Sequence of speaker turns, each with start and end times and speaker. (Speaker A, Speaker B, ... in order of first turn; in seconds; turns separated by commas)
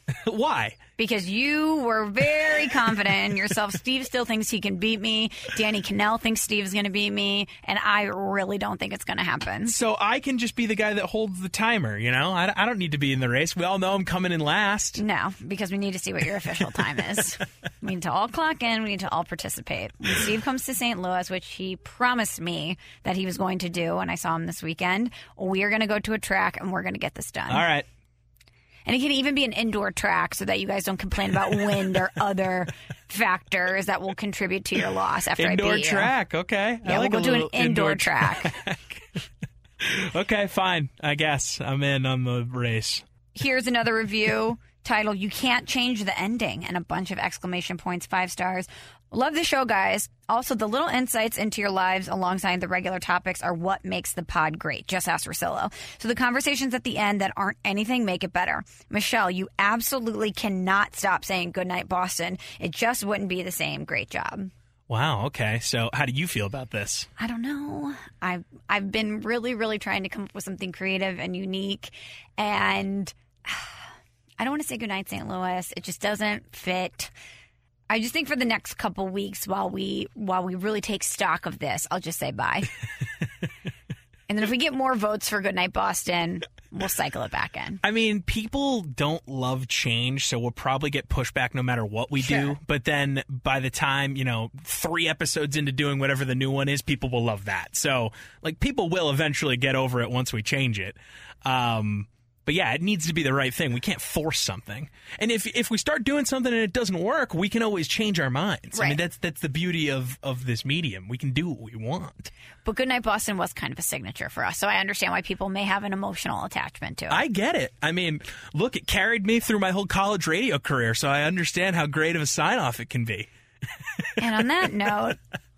Speaker A: 0.1-0.8, Speaker B: 1.0-9.8, Speaker A: 9.7-15.0, Speaker B: 15.0-27.7, Speaker A: 27.5-27.9, Speaker B: 28.9-36.1, Speaker A: 35.4-39.2, Speaker B: 36.8-38.5, Speaker A: 39.8-43.0, Speaker B: 43.3-64.5, Speaker A: 64.9-67.1, Speaker B: 67.2-73.7, Speaker B: 74.4-77.1, Speaker B: 77.9-82.7, Speaker B: 84.3-87.8, Speaker A: 87.8-112.3, Speaker B: 92.2-92.5, Speaker B: 108.7-109.0, Speaker B: 112.7-117.2, Speaker A: 117.1-123.3, Speaker B: 124.2-125.2